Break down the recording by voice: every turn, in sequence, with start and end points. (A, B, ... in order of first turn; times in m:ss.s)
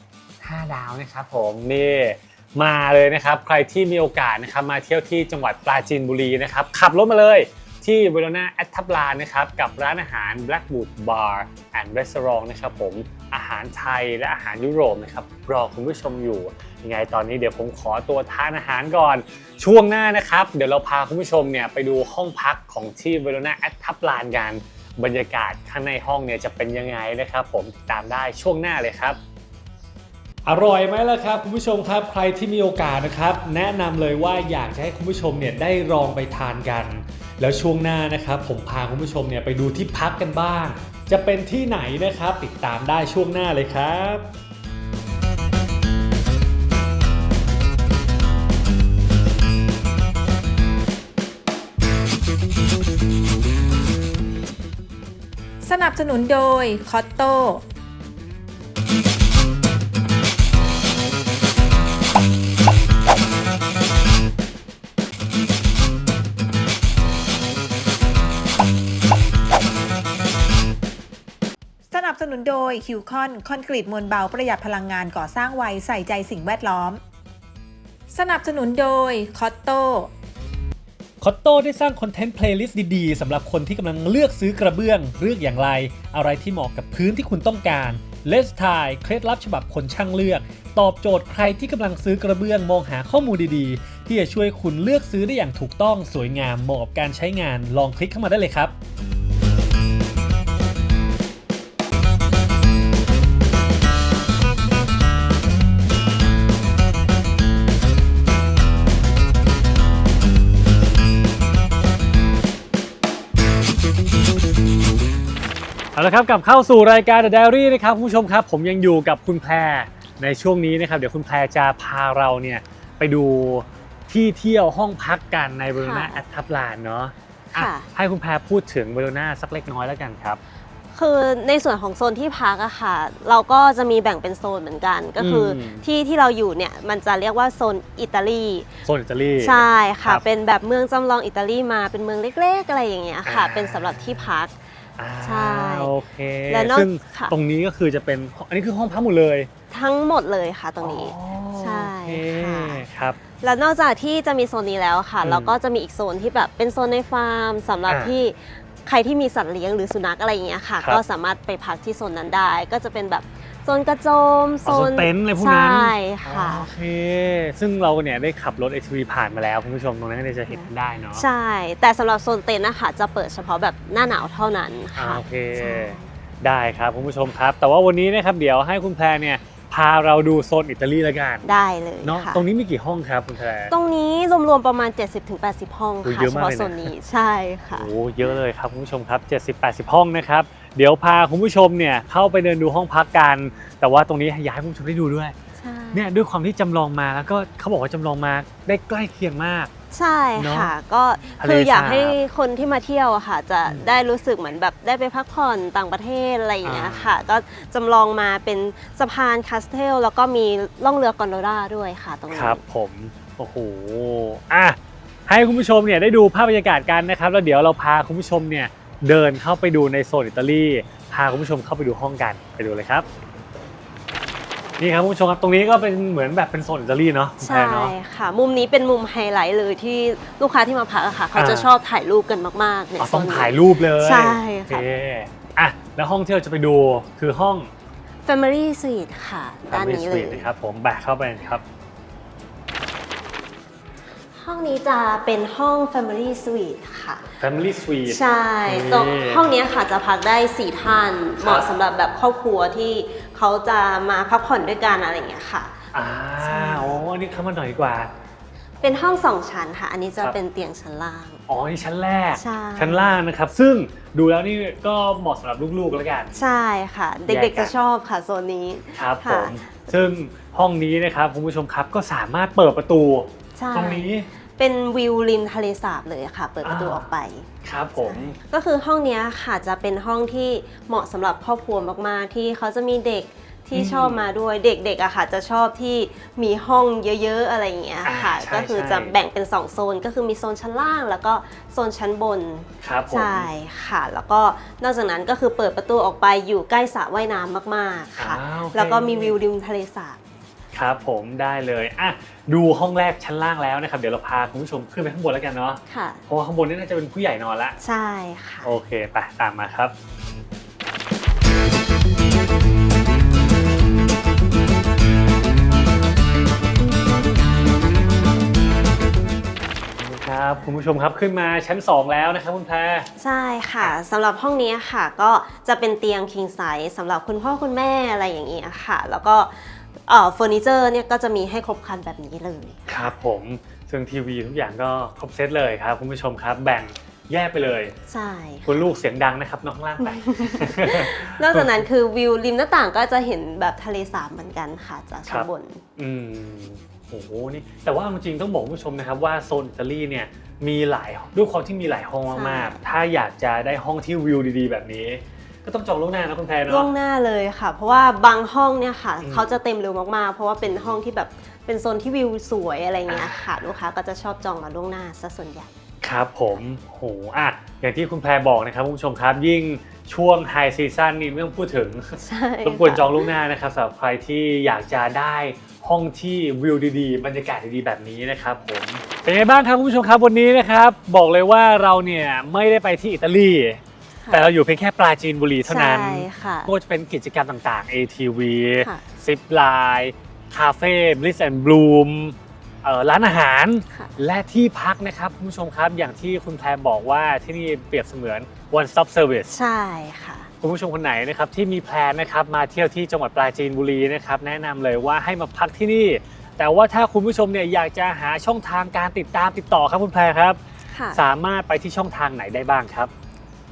0:00.4-0:29.2 A
0:30.5-0:44.3 A
0:55.6-0:57.7 B
1:11.9-1:17.0 B
1:18.1-1:20.1 B
1:21.2-1:38.7 A
1:56.0-2:10.4 A
2:05.8-2:06.2 C
2:07.5-2:07.9 C
2:10.9-2:18.7 C
2:15.2-2:15.9 A
2:18.9-2:20.2 A
2:19.4-2:24.5 C
2:23.3-2:24.4 A
2:25.0-2:29.5 A
2:25.2-2:25.9 C
2:26.5-2:27.4 C
2:29.7-2:32.8 C
2:30.8-2:33.2 A
2:33.4-2:46.7 C
2:35.2-2:35.5 A
2:37.9-2:38.1 A
2:44.7-2:51.2 A
2:50.5-2:56.1 C
2:55.0-3:01.5 A
3:01.4-3:02.4 C
3:02.0-3:03.7 A
3:03.7-3:07.9 C
3:06.0-3:06.9 A
3:07.8-3:15.4 A
3:15.6-3:16.0 C
3:15.9-3:19.7 A
3:19.9-3:32.6 C
3:20.4-3:20.7 A
3:21.4-3:22.2 A
3:23.7-3:23.9 A
3:26.6-3:27.2 A
3:32.3-3:34.8 A
3:35.3-3:43.1 A
3:44.8-3:47.9 A
3:47.4-3:54.8 C
3:51.4-3:51.7 A
3:53.0-3:57.7 A
3:58.3-4:00.4 C
3:59.7-4:01.6 A
4:04.3-4:07.3 C
4:07.4-4:09.5 A
4:08.1-4:15.8 C
4:11.4-4:11.6 A
4:15.9-4:18.1 A
4:16.4-4:17.0 C
4:18.8-4:21.4 C
4:21.5-4:26.4 A
4:22.4-4:23.1 C
4:26.4-4:29.7 C
4:27.3-4:27.7 A
4:29.0-4:34.3 A
4:33.6-4:34.1 C
4:34.6-4:37.5 C
4:36.6-4:37.0 A
4:37.6-4:38.4 A
4:38.0-5:00.2 C
4:43.7-4:44.2 A
4:48.0-4:49.1 A
4:52.8-4:53.5 A
4:58.2-4:59.3 A
5:00.7-5:07.8 A
5:05.9-5:06.2 C
5:07.8-5:08.7 C
5:08.6-5:09.9 A
5:20.0-5:23.1 A
5:23.2-5:33.1 C
5:32.9-5:38.0 A
5:38.1-5:38.9 C
5:38.7-5:41.9 A
5:40.0-5:45.8 C
5:45.3-5:56.9 A
5:52.3-5:52.8 C
5:56.7-6:05.7 C
5:59.2-5:59.5 A
6:03.1-6:03.5 A
6:06.0-6:39.5 A
6:12.2-6:13.3 C
6:25.7-6:26.7 C
6:39.5-6:40.5 C
6:40.6-6:50.6 A
6:50.9-6:51.2 C
6:51.1-6:53.1 A